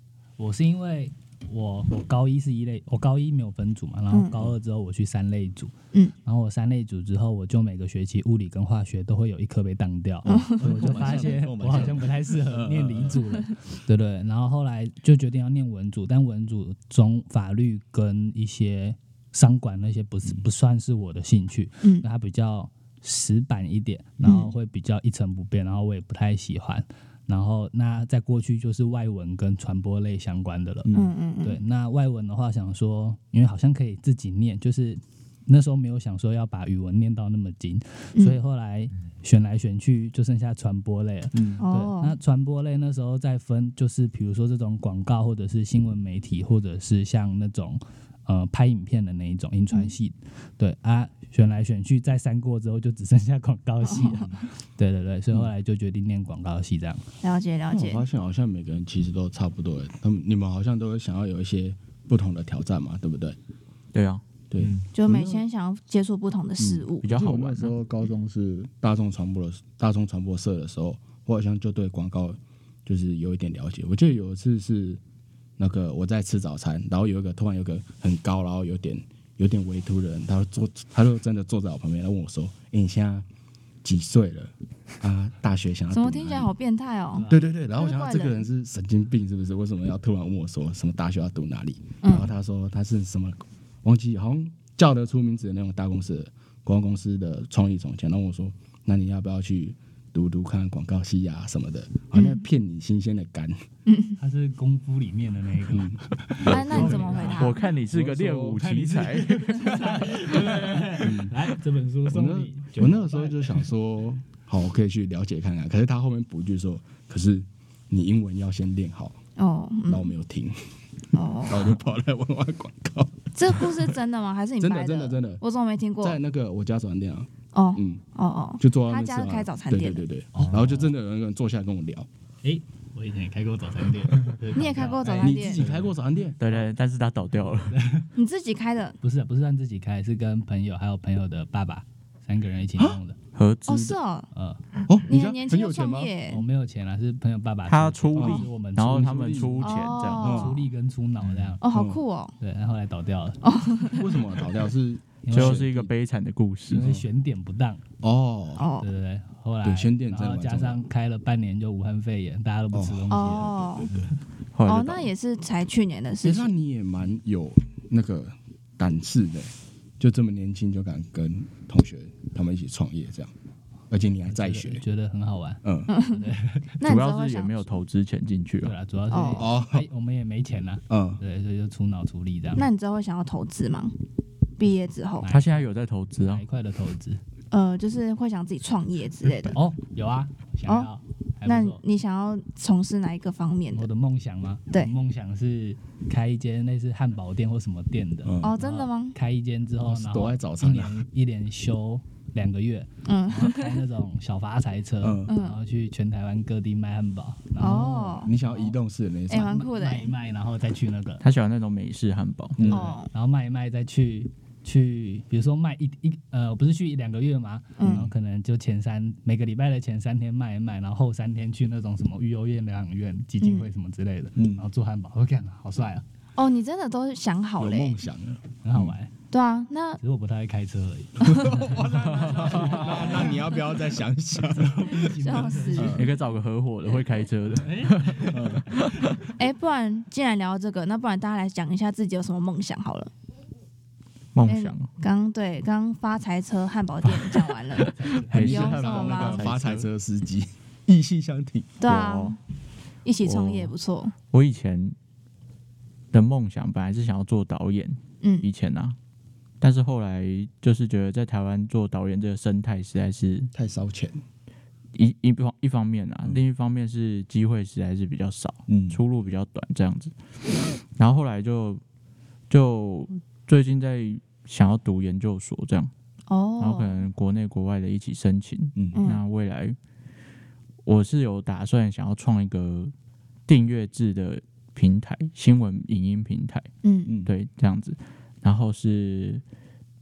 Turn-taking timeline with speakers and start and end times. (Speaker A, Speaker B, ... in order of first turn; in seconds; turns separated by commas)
Speaker A: 0.4-30.9, Speaker B: 4.1-4.5, Speaker C: 10.3-13.2, Speaker B: 24.2-24.5, Speaker C: 30.9-31.1, Speaker B: 30.9-31.6, Speaker A: 31.4-57.0, Speaker C: 41.3-41.6, Speaker B: 41.6-42.1, Speaker B: 53.8-54.3, Speaker B: 57.2-58.0, Speaker C: 57.7-63.4, Speaker D: 63.9-64.2, Speaker C: 64.5-65.4, Speaker B: 64.9-67.1, Speaker C: 66.6-75.0, Speaker D: 67.0-67.7, Speaker C: 75.6-83.2, Speaker C: 83.8-86.5, Speaker B: 85.9-88.4, Speaker A: 87.1-87.5, Speaker C: 87.3-103.6, Speaker B: 92.0-92.3, Speaker B: 102.1-102.4, Speaker B: 103.9-104.2, Speaker A: 104.2-113.7, Speaker C: 105.7-107.4, Speaker B: 106.5-107.6, Speaker D: 107.4-110.0, Speaker C: 107.9-108.6, Speaker C: 109.8-110.3, Speaker C: 110.9-111.4, Speaker C: 112.1-119.2, Speaker B: 119.4-120.1, Speaker C: 119.9-120.6, Speaker B: 121.1-121.7, Speaker C: 121.5-123.9, Speaker B: 123.3-126.2, Speaker C: 124.6-125.4, Speaker C: 126.0-128.0, Speaker B: 127.5-130.1, Speaker C: 128.6-132.1, Speaker A: 130.3-130.9, Speaker A: 132.4-135.9, Speaker B: 134.5-135.6, Speaker C: 135.2-136.4, Speaker D: 136.4-137.8, Speaker A: 137.7-138.1, Speaker B: 138.1-138.9, Speaker A: 139.0-143.2, Speaker D: 143.3-144.0, Speaker B: 143.7-144.3, Speaker A: 144.3-144.6, Speaker C: 144.9-146.1, Speaker B: 145.1-146.4, Speaker A: 146.3-151.6, Speaker D: 147.7-150.5, Speaker C: 148.1-149.6, Speaker B: 149.6-150.5, Speaker C: 150.2-150.5, Speaker B: 151.6-152.3, Speaker C: 151.6-152.0, Speaker A: 152.4-153.4, Speaker B: 153.4-154.3, Speaker C: 154.0-155.9, Speaker A: 155.2-155.9, Speaker D: 155.3-156.9, Speaker A: 156.7-157.8, Speaker C: 156.7-157.0, Speaker C: 158.0-158.7, Speaker B: 158.6-158.9, Speaker A: 158.8-164.0, Speaker C: 159.6-160.8, Speaker C: 162.7-164.1, Speaker B: 163.1-163.9, Speaker D: 164.5-165.1, Speaker B: 164.7-166.5, Speaker C: 166.2-173.3, Speaker C: 173.9-174.8, Speaker A: 174.3-176.8, Speaker C: 175.6-175.9, Speaker B: 175.9-176.2, Speaker B: 176.8-177.7, Speaker D: 176.8-178.7, Speaker A: 178.6-182.7, Speaker B: 179.1-179.4, Speaker C: 179.3-179.8, Speaker C: 180.9-181.2, Speaker B: 182.6-183.9, Speaker B: 184.6-185.3, Speaker A: 185.2-185.7, Speaker D: 185.3-186.4, Speaker A: 186.2-187.2, Speaker B: 187.5-189.6, Speaker A: 189.5-191.8, Speaker B: 191.4-193.9, Speaker A: 193.7-208.8, Speaker C: 198.2-198.6, Speaker B: 198.4-199.2, Speaker C: 199.8-201.0, Speaker B: 203.0-203.8, Speaker C: 205.0-205.3, Speaker B: 205.3-205.6, Speaker B: 207.6-208.3, Speaker C: 207.6-209.5, Speaker B: 209.3-210.1, Speaker A: 209.3-211.2, Speaker D: 211.2-212.6, Speaker C: 212.6-212.9, Speaker A: 212.6-226.0, Speaker B: 212.7-213.1, Speaker B: 217.8-218.1, Speaker C: 217.8-218.1, Speaker B: 223.4-223.7, Speaker C: 224.3-224.6, Speaker B: 226.4-228.0, Speaker C: 227.6-228.9, Speaker A: 228.6-229.1, Speaker B: 229.3-230.0, Speaker A: 230.0-233.5, Speaker C: 231.3-235.0, Speaker D: 231.9-233.0, Speaker A: 234.5-236.1, Speaker B: 235.2-236.1, Speaker C: 235.7-236.1, Speaker D: 236.0-239.2, Speaker A: 237.6-238.4, Speaker C: 238.3-238.7, Speaker B: 239.4-243.1, Speaker D: 244.3-244.9, Speaker B: 244.4-249.5, Speaker A: 247.9-248.4, Speaker D: 248.3-249.9, Speaker C: 248.3-251.8, Speaker B: 251.8-252.4, Speaker D: 251.8-252.3, Speaker B: 253.0-254.1, Speaker D: 253.2-253.7, Speaker D: 254.3-254.9, Speaker D: 256.1-258.9, Speaker B: 258.2-258.5, Speaker D: 259.6-263.5, Speaker C: 263.5-264.2, Speaker D: 264.9-270.1, Speaker C: 268.7-269.0, Speaker D: 270.9-271.8, Speaker D: 272.5-275.9, Speaker B: 276.3-277.0, Speaker D: 276.6-279.8, Speaker C: 278.7-279.0, Speaker B: 278.9-279.2, Speaker D: 280.8-282.9, Speaker D: 283.5-286.7, Speaker B: 286.8-287.1, Speaker C: 287.1-287.3, Speaker D: 287.2-289.4